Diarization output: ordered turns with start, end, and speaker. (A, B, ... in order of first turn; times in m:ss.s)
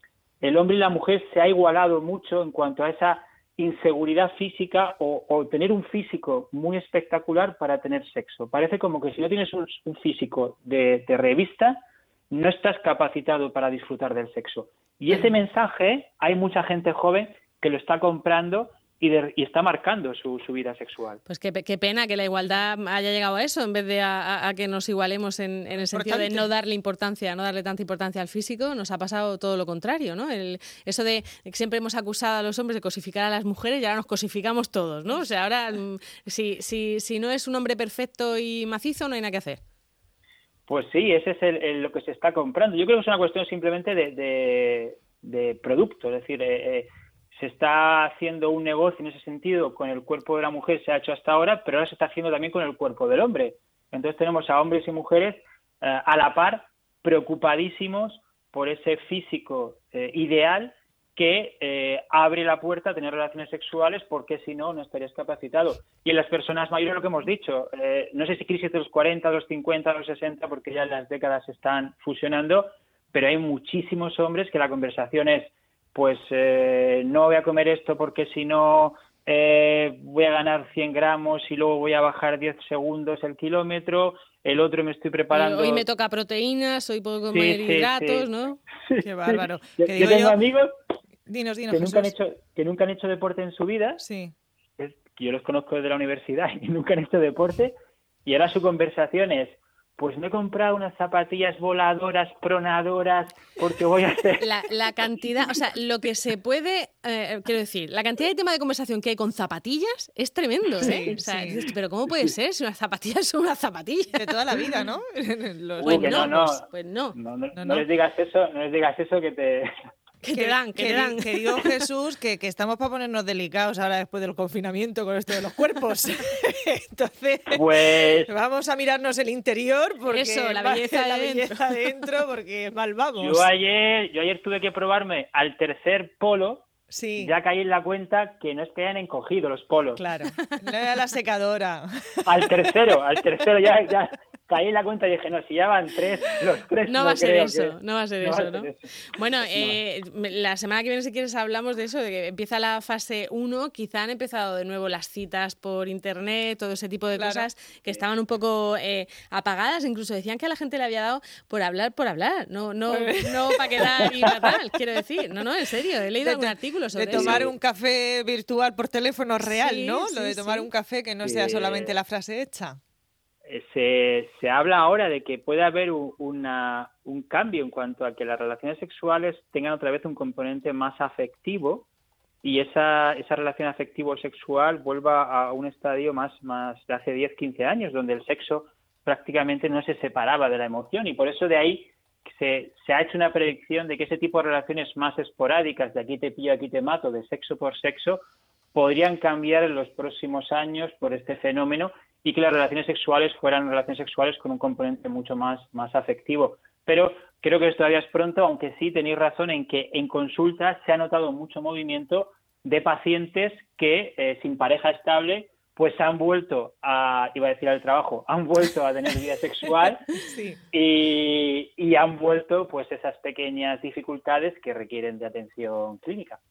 0:00.4-0:11.8 A
0:12.3-0:21.2 A
0:21.3-0:39.6 B
0:25.9-0:26.5 C
0:40.7-1:25.8 A
1:25.3-1:28.6 B
1:27.3-1:28.3 A
1:28.8-1:30.7 A
1:29.0-1:30.4 C
1:31.3-1:32.1 C
1:31.7-1:34.0 A
1:34.0-1:34.3 C
1:34.8-1:37.7 A
1:38.2-1:44.5 A
1:44.4-1:54.4 B
1:50.8-1:51.6 C
1:50.8-1:51.2 A
1:54.1-1:56.6 C
1:55.8-1:59.7 A
1:55.8-1:57.1 B
1:57.5-1:57.8 C
2:00.2-2:01.7 B
2:00.3-2:13.5 C
2:07.5-2:08.3 A
2:10.1-2:12.0 B
2:13.2-2:20.0 A
2:16.9-2:17.3 C
2:20.0-2:22.6 C
2:22.2-2:28.9 A
2:26.9-2:47.5 B
2:29.5-2:29.8 A
2:37.2-2:37.4 C
2:42.9-2:44.5 C
2:46.2-2:52.8 C
2:47.1-2:47.5 A
2:49.4-2:50.7 B
2:51.2-2:52.0 A
2:53.4-3:01.9 A
3:02.4-3:18.2 A
3:18.7-3:40.1 A
3:40.2-3:40.6 C
3:40.7-3:46.4 A